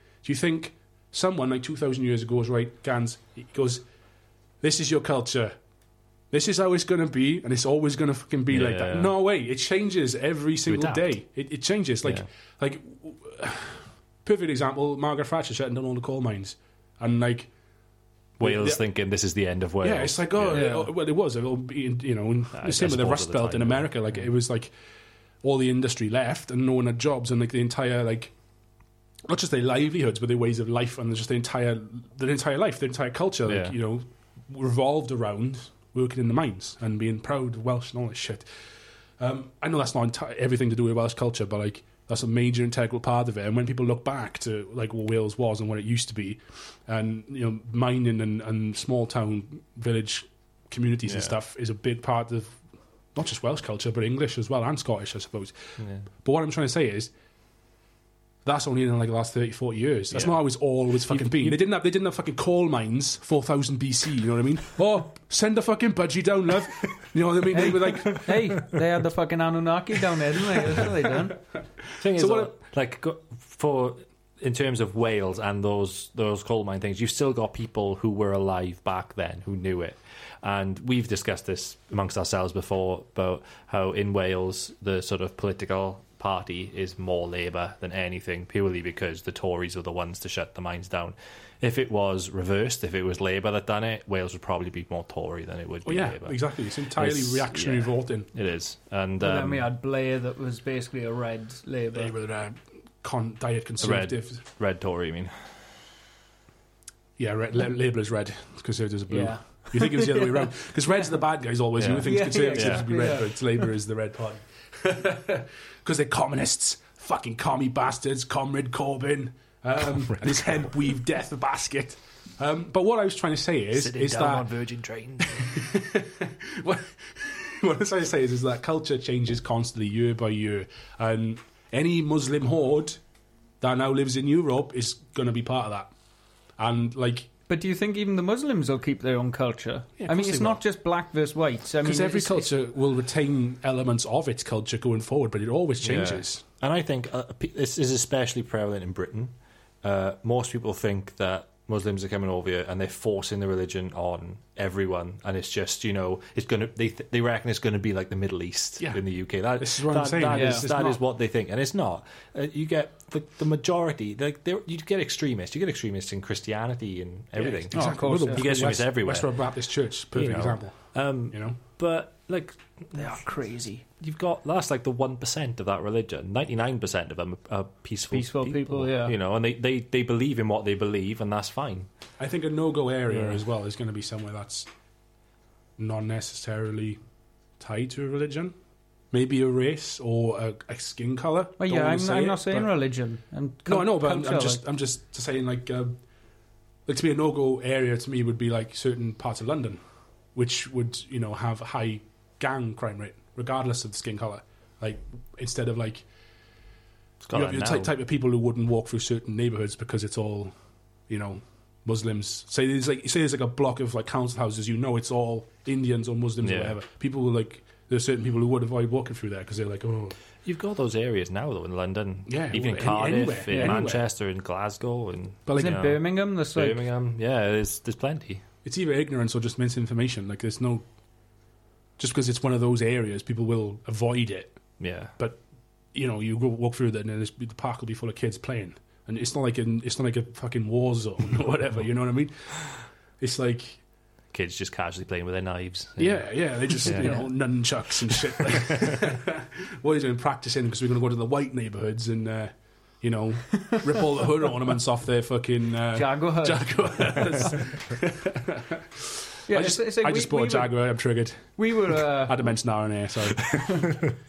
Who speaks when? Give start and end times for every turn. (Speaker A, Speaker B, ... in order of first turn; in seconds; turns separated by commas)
Speaker A: 0.2-3.9, Speaker A: 4.6-5.6, Speaker A: 6.3-17.5, Speaker B: 8.5-9.1, Speaker B: 10.7-11.1, Speaker B: 18.4-20.7, Speaker A: 18.4-18.8, Speaker A: 19.8-24.7, Speaker C: 20.5-20.9, Speaker B: 22.6-24.2, Speaker A: 25.4-28.3, Speaker A: 29.3-38.5, Speaker B: 33.5-33.7, Speaker A: 39.2-52.6, Speaker B: 51.1-51.4, Speaker A: 53.1-57.1, Speaker B: 55.8-56.1, Speaker A: 58.4-68.5, Speaker B: 60.1-60.4, Speaker B: 61.0-61.6, Speaker C: 67.5-71.4, Speaker B: 72.0-99.7, Speaker A: 72.0-72.5, Speaker A: 95.8-98.3, Speaker C: 99.2-102.1, Speaker A: 101.9-104.4, Speaker B: 103.8-105.3, Speaker A: 107.2-124.6, Speaker C: 109.1-110.7, Speaker B: 111.8-113.1, Speaker C: 112.0-113.7, Speaker B: 123.8-125.2, Speaker A: 125.2-133.0, Speaker A: 133.6-135.9, Speaker A: 136.6-137.3, Speaker C: 137.5-142.5, Speaker A: 140.0-140.6, Speaker A: 141.8-146.4, Speaker B: 145.8-149.3, Speaker B: 149.8-169.5, Speaker A: 159.6-161.0, Speaker C: 160.3-160.6, Speaker A: 167.4-171.6, Speaker C: 167.7-168.4, Speaker B: 170.1-173.2, Speaker C: 172.9-173.8, Speaker B: 174.0-181.9, Speaker C: 178.1-179.1, Speaker A: 182.2-184.7, Speaker B: 183.1-183.4, Speaker A: 185.8-187.0, Speaker A: 187.6-188.6, Speaker A: 189.1-192.7, Speaker C: 191.6-194.6, Speaker A: 193.7-195.9, Speaker A: 196.9-199.8, Speaker A: 200.3-206.1, Speaker B: 207.2-207.9, Speaker A: 207.3-210.5, Speaker A: 211.1-220.2, Speaker B: 216.4-216.8, Speaker B: 220.4-228.4, Speaker A: 222.3-224.0, Speaker C: 223.5-223.8, Speaker A: 225.5-225.8, Speaker C: 225.6-226.8, Speaker A: 228.6-230.8, Speaker A: 232.0-234.6, Speaker B: 234.8-235.1, Speaker A: 235.9-243.8, Speaker B: 244.3-247.4, Speaker A: 246.0-263.8, Speaker B: 248.1-249.0, Speaker C: 255.9-257.6, Speaker C: 259.5-260.8, Speaker C: 261.6-262.4, Speaker C: 263.6-263.9